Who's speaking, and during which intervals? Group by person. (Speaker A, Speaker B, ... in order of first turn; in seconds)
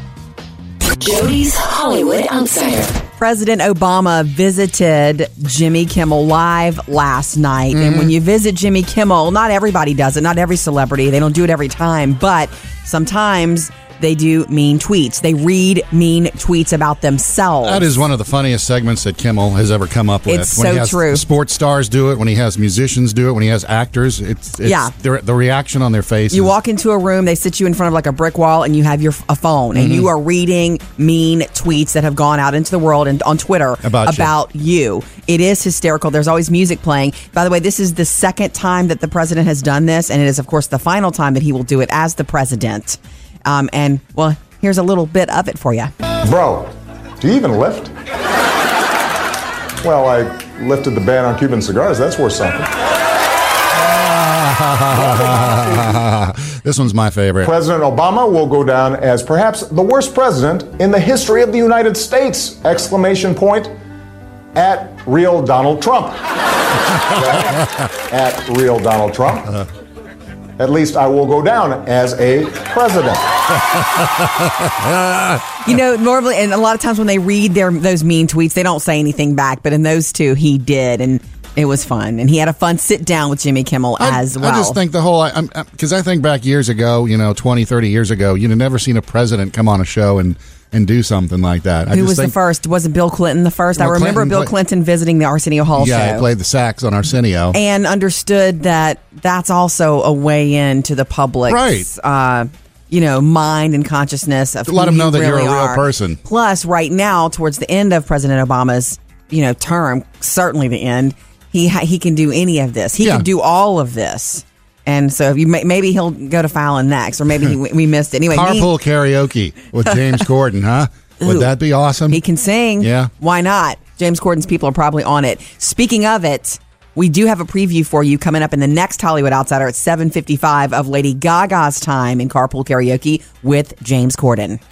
Speaker A: 1.0-3.0
Speaker B: 3.2-17.9, 20.3-21.2, 24.6-24.9, 26.3-45.9, 75.6-84.8, 91.9-96.3, 97.5-118.7, 121.2-121.5, 122.1-134.6
Speaker C: 7.7-8.2, 17.6-26.5, 29.7-30.1, 33.8-34.4, 53.8-57.5, 74.6-75.4, 84.0-92.4, 93.8-94.5, 95.8-97.6, 101.5-101.9, 104.7-106.2, 113.0-113.3, 118.3-122.2, 122.8-123.1
Speaker D: 46.2-47.9, 49.8-52.7, 57.4-63.8, 64.5-66.2, 67.0-69.6, 70.6-73.4